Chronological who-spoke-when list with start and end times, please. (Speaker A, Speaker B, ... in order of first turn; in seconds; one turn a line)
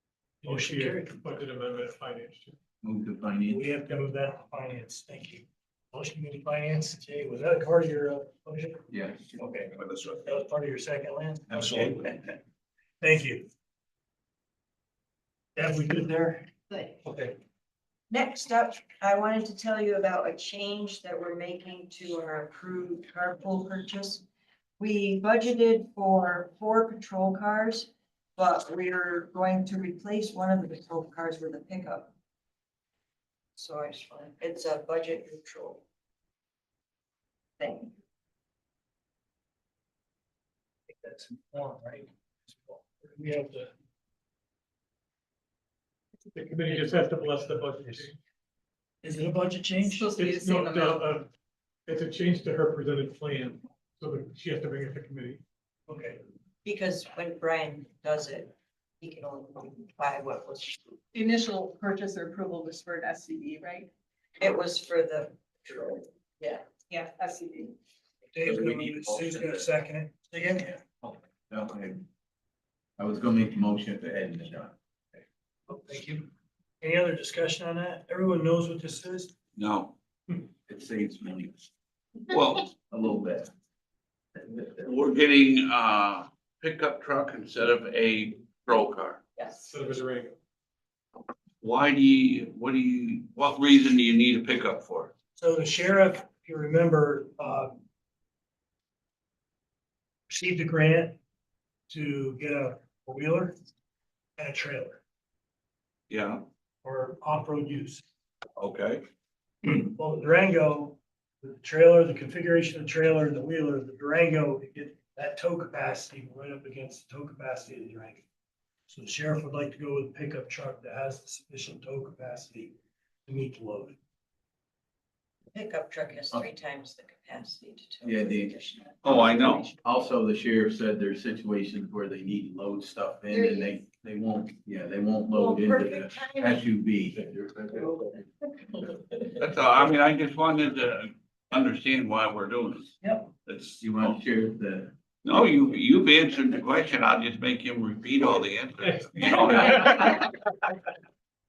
Speaker A: 0.4-2.6
Speaker B: 0.5-1.2
Speaker C: 2.8-3.7
Speaker B: 3.5-12.3
Speaker C: 8.9-9.3
Speaker D: 9.8-10.2
Speaker D: 11.5-12.0
Speaker B: 13.0-13.5
Speaker B: 15.6-16.5
Speaker E: 16.7-17.0
Speaker F: 18.1-24.2
Speaker F: 24.8-32.1
Speaker F: 33.6-35.9
Speaker F: 37.6-38.0
Speaker B: 40.9-43.7
Speaker A: 46.3-48.2
Speaker B: 49.0-50.1
Speaker E: 49.8-51.1
Speaker A: 50.2-51.3
Speaker A: 51.9-55.4
Speaker B: 55.9-56.2
Speaker F: 56.6-60.8
Speaker E: 61.1-63.9
Speaker F: 64.4-66.7
Speaker E: 66.9-67.8
Speaker B: 68.3-70.8
Speaker C: 68.5-69.6
Speaker C: 71.5-72.0
Speaker C: 73.0-74.8
Speaker B: 75.7-76.3
Speaker B: 76.8-79.3
Speaker D: 79.6-79.9
Speaker C: 80.7-81.6
Speaker D: 82.3-82.7
Speaker C: 82.9-83.5
Speaker D: 84.6-89.2
Speaker A: 89.7-90.4
Speaker D: 91.6-95.1
Speaker B: 95.4-97.8
Speaker B: 100.3-101.2
Speaker B: 101.9-103.5
Speaker B: 104.4-105.0
Speaker D: 106.1-106.4
Speaker B: 106.8-108.0
Speaker D: 108.6-109.0
Speaker B: 110.0-118.2
Speaker B: 118.9-122.8
Speaker B: 123.3-124.0
Speaker F: 125.5-129.8
Speaker C: 128.0-128.6
Speaker D: 129.0-129.7
Speaker C: 129.8-137.9
Speaker F: 133.3-133.8
Speaker F: 135.3-136.6
Speaker D: 139.4-142.9
Speaker D: 143.5-144.2
Speaker C: 143.8-144.9
Speaker D: 145.2-150.2
Speaker A: 149.1-150.0